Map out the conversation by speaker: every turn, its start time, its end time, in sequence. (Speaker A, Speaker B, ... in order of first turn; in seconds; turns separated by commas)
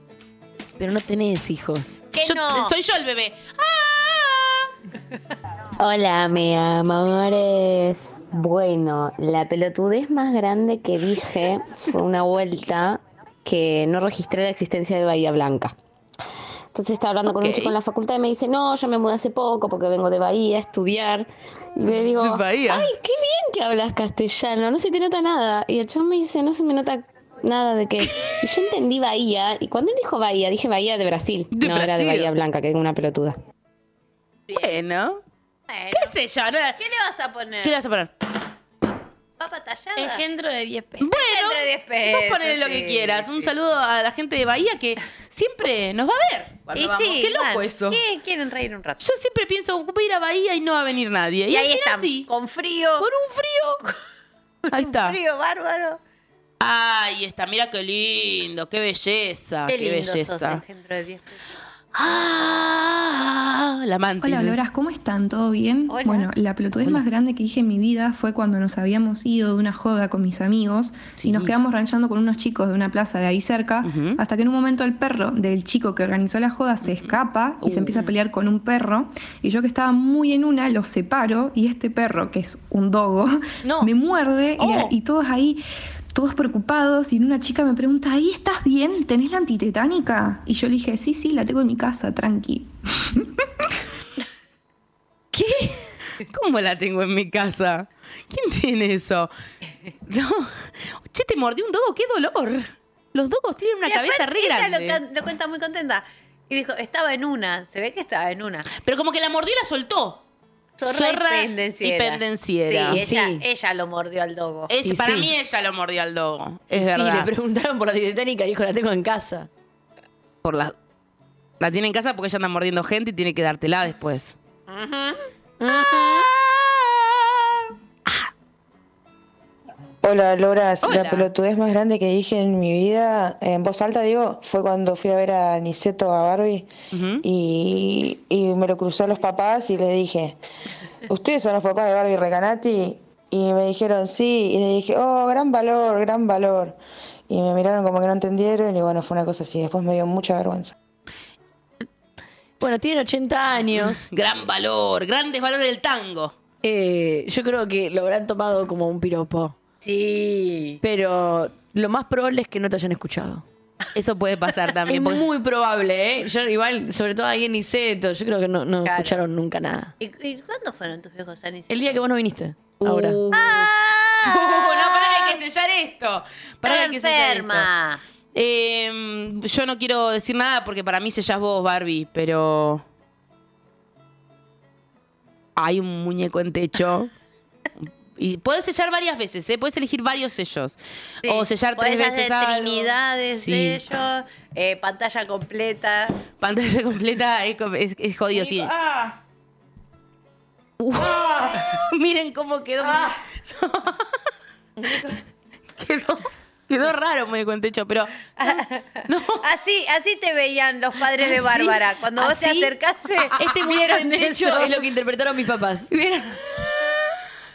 Speaker A: 0.8-2.0, Speaker B: 2.1-2.7, Speaker C: 2.1-4.7, Speaker D: 5.8-15.7, Speaker D: 16.7-33.4, Speaker C: 17.3-17.7, Speaker C: 22.0-22.9, Speaker C: 31.5-32.3, Speaker C: 34.5-35.2, Speaker B: 35.7-36.1, Speaker C: 35.9-36.8, Speaker B: 36.8-37.8, Speaker C: 37.6-38.1, Speaker B: 39.4-40.2, Speaker A: 40.0-41.1, Speaker C: 41.0-48.0, Speaker B: 41.1-43.5, Speaker B: 46.7-49.0, Speaker C: 49.0-52.3, Speaker B: 51.5-53.1, Speaker C: 53.0-53.8, Speaker B: 54.7-56.0, Speaker C: 54.7-55.2, Speaker C: 56.6-60.6, Speaker B: 59.7-61.4, Speaker C: 61.9-64.6, Speaker E: 64.2-85.6, Speaker B: 65.9-66.3, Speaker C: 71.2-71.5, Speaker C: 73.8-74.2, Speaker C: 76.8-78.0, Speaker A: 83.6-83.9, Speaker A: 84.6-84.9, Speaker E: 86.1-93.4, Speaker A: 95.3-95.9, Speaker C: 96.2-99.3, Speaker C: 100.0-105.0, Speaker B: 103.8-108.7, Speaker C: 108.8-110.2, Speaker B: 110.8-114.7, Speaker C: 110.9-113.0, Speaker A: 112.9-113.4, Speaker C: 114.7-117.3, Speaker A: 114.8-115.3, Speaker A: 116.7-119.5, Speaker C: 120.4-120.7, Speaker C: 121.6-124.3, Speaker A: 125.6-126.3, Speaker F: 130.0-136.7, Speaker C: 130.8-131.3, Speaker C: 136.9-137.2, Speaker F: 137.2-140.4, Speaker F: 141.1-146.8, Speaker F: 147.3-150.7, Speaker A: 152.6-154.1, Speaker C: 153.7-156.3, Speaker A: 156.6-159.5, Speaker B: 159.8-160.8, Speaker A: 160.8-163.4, Speaker C: 163.9-165.3, Speaker A: 164.9-169.9, Speaker B: 168.8-169.2, Speaker B: 170.0-171.9, Speaker A: 171.7-173.2, Speaker C: 172.8-177.7, Speaker B: 173.3-175.4, Speaker B: 176.6-178.0, Speaker C: 178.3-182.8, Speaker C: 185.6-187.1, Speaker C: 187.8-193.8, Speaker B: 191.2-196.1, Speaker C: 196.4-198.7, Speaker A: 198.3-199.1, Speaker C: 200.8-204.1, Speaker A: 201.0-201.6, Speaker A: 202.8-203.2, Speaker A: 204.8-205.2, Speaker C: 205.8-209.4, Speaker B: 208.4-214.8, Speaker A: 211.2-212.7, Speaker A: 213.3-215.9, Speaker C: 215.9-217.0